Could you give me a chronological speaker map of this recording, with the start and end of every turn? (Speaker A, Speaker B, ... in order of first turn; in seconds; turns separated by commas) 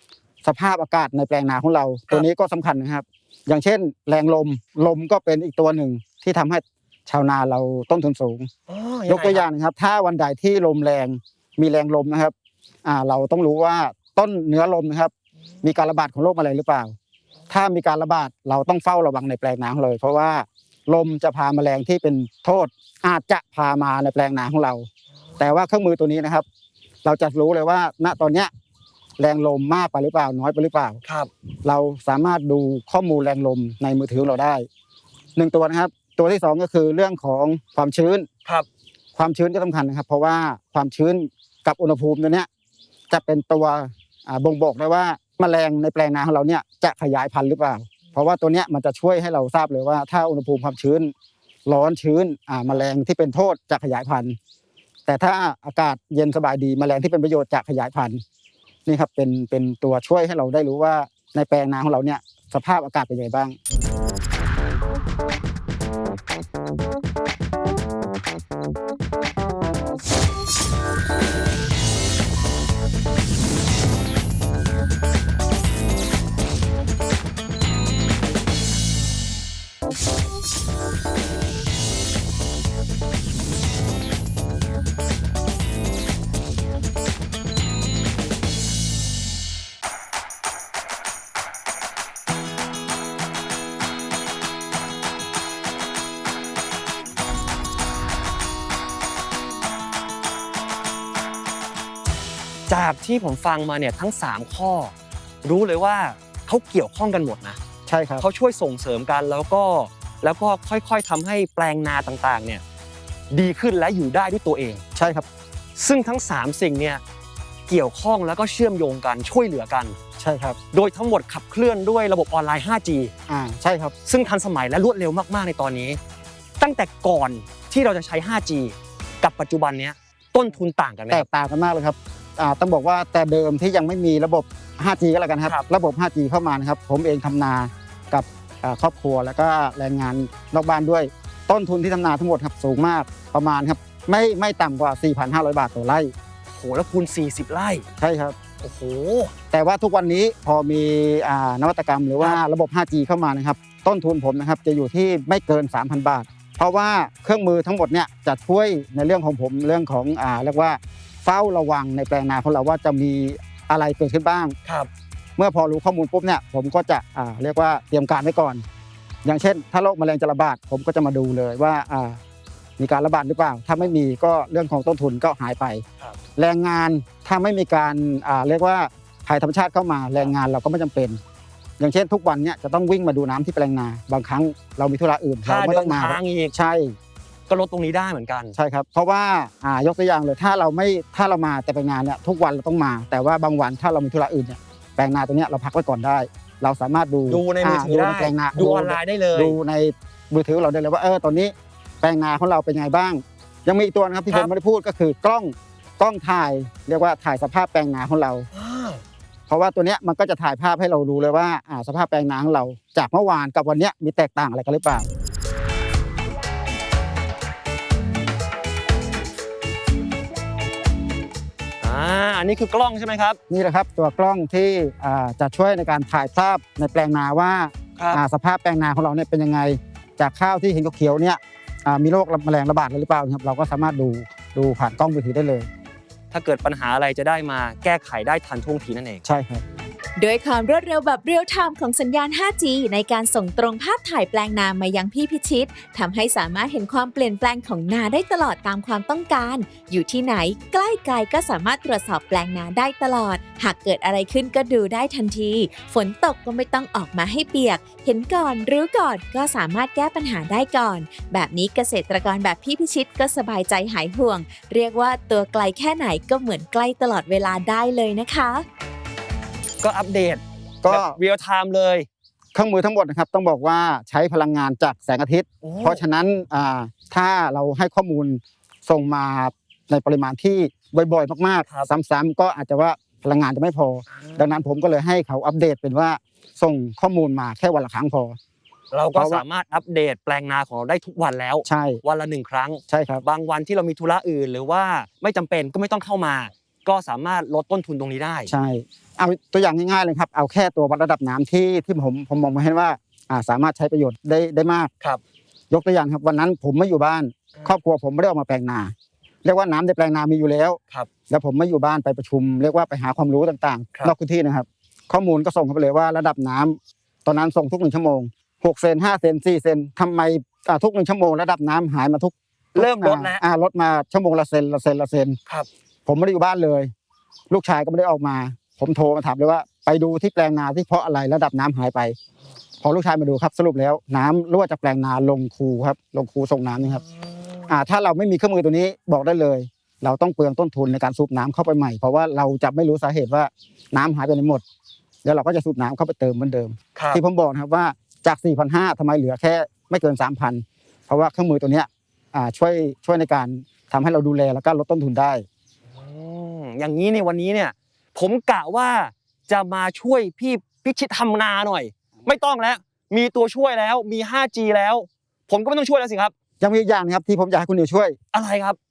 Speaker A: 0.4-8.5, Speaker B: 8.7-9.4, Speaker A: 9.1-15.1, Speaker A: 15.6-17.0, Speaker A: 17.5-24.9, Speaker A: 25.4-26.4, Speaker A: 27.0-28.5, Speaker A: 29.2-31.0, Speaker B: 31.1-31.3, Speaker A: 31.6-34.7, Speaker A: 35.4-38.3, Speaker A: 39.2-42.5, Speaker A: 43.1-51.1, Speaker A: 51.7-54.4, Speaker A: 55.1-58.2, Speaker A: 58.9-63.6, Speaker B: 102.7-104.9, Speaker B: 105.4-107.6, Speaker A: 107.9-108.2, Speaker B: 108.2-112.6, Speaker B: 113.3-114.8, Speaker A: 115.0-115.3, Speaker B: 115.8-117.0, Speaker B: 117.7-120.0, Speaker A: 120.2-120.6, Speaker B: 120.7-123.1, Speaker A: 123.3-124.0, Speaker B: 124.1-126.0, Speaker B: 126.6-131.3, Speaker A: 131.1-146.1, Speaker B: 146.5-147.9, Speaker A: 148.0-148.4, Speaker B: 148.6-149.3, Speaker A: 149.5-164.6, Speaker A: 165.4-168.6, Speaker A: 169.2-172.2, Speaker A: 172.8-175.8, Speaker A: 176.4-181.2, Speaker A: 181.8-187.0, Speaker B: 185.4-186.5, Speaker B: 187.5-188.6, Speaker A: 188.6-208.5, Speaker B: 197.3-199.6, Speaker B: 208.5-209.0, Speaker A: 209.5-215.1, Speaker B: 221.8-223.4, Speaker A: 223.5-235.7, Speaker B: 236.3-239.2, Speaker A: 239.2-239.6, Speaker C: 240.2-268.7, Speaker B: 269.8-272.1, Speaker A: 270.8-271.2, Speaker A: 272.5-288.4, Speaker B: 275.6-276.0, Speaker B: 284.2-284.5, Speaker B: 288.9-298.5, Speaker A: 289.1-289.4, Speaker A: 291.6-292.0, Speaker A: 292.9-293.2, Speaker A: 298.5-304.9, Speaker A: 305.7-325.4, Speaker B: 322.8-323.4, Speaker A: 326.1-326.9, Speaker A: 327.5-332.2, Speaker A: 332.8-337.0, Speaker A: 337.7-344.6, Speaker A: 345.2-355.5, Speaker B: 347.0-347.2, Speaker B: 355.9-366.3, Speaker A: 366.6-368.2, Speaker B: 368.3-368.8